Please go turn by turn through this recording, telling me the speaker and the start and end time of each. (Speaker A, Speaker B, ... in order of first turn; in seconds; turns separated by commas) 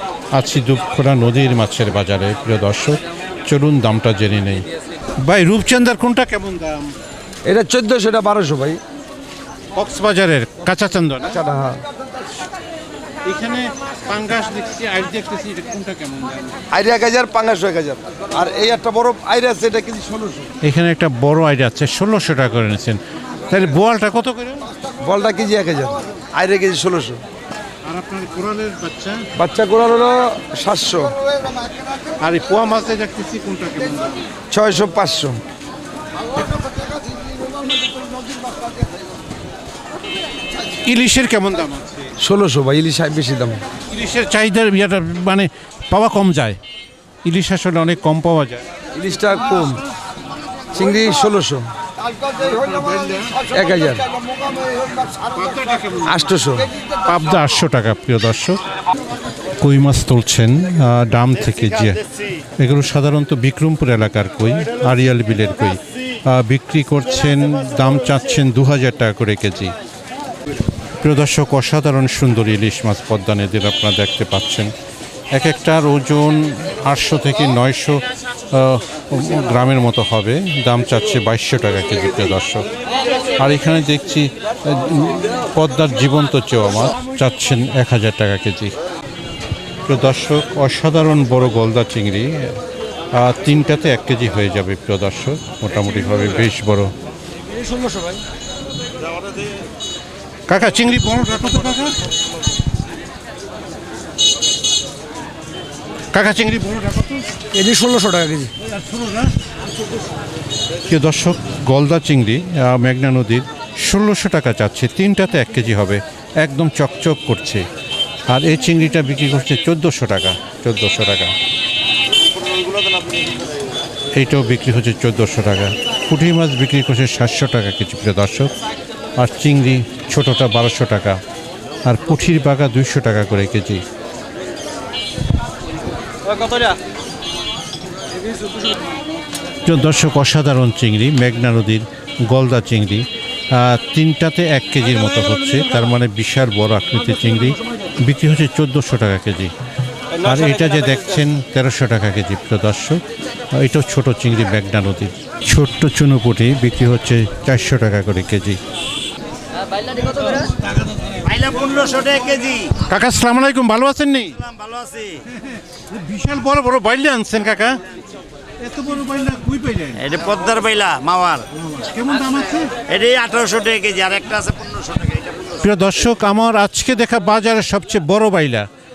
Speaker A: 0.3-4.7, Speaker A: 5.2-6.9, Speaker B: 7.4-8.8, Speaker A: 9.7-11.4, Speaker B: 11.3-11.8, Speaker A: 13.2-16.6, Speaker B: 16.7-20.5, Speaker A: 20.6-24.6, Speaker B: 25.0-27.2, Speaker A: 27.8-29.2, Speaker B: 29.4-31.1, Speaker A: 32.2-34.2, Speaker B: 34.5-35.4, Speaker A: 40.8-42.1, Speaker B: 42.2-43.6, Speaker A: 43.9-46.6, Speaker A: 47.2-48.6, Speaker B: 48.9-49.8, Speaker B: 50.7-51.7, Speaker B: 52.3-52.7, Speaker B: 53.3-55.3, Speaker A: 55.4-56.1, Speaker B: 55.9-56.7, Speaker A: 57.0-58.6, Speaker A: 59.6-62.0, Speaker A: 62.6-69.7, Speaker A: 71.0-74.7, Speaker A: 75.3-82.7, Speaker A: 83.4-88.7, Speaker A: 89.8-92.6, Speaker A: 93.1-96.9, Speaker B: 97.6-98.2, Speaker A: 100.5-102.0, Speaker A: 106.1-107.2, Speaker B: 107.5-108.5, Speaker A: 108.7-109.2, Speaker A: 110.9-117.6, Speaker A: 118.3-121.3, Speaker A: 124.1-128.5, Speaker A: 129.2-131.2, Speaker A: 131.8-133.8, Speaker A: 139.7-149.5, Speaker A: 150.1-153.0, Speaker A: 153.5-158.6, Speaker C: 161.2-162.7, Speaker A: 162.9-164.4, Speaker C: 164.3-165.2, Speaker A: 165.8-167.8, Speaker A: 168.6-170.0, Speaker C: 170.0-171.4, Speaker A: 171.5-172.7, Speaker C: 172.9-175.6, Speaker A: 175.6-178.7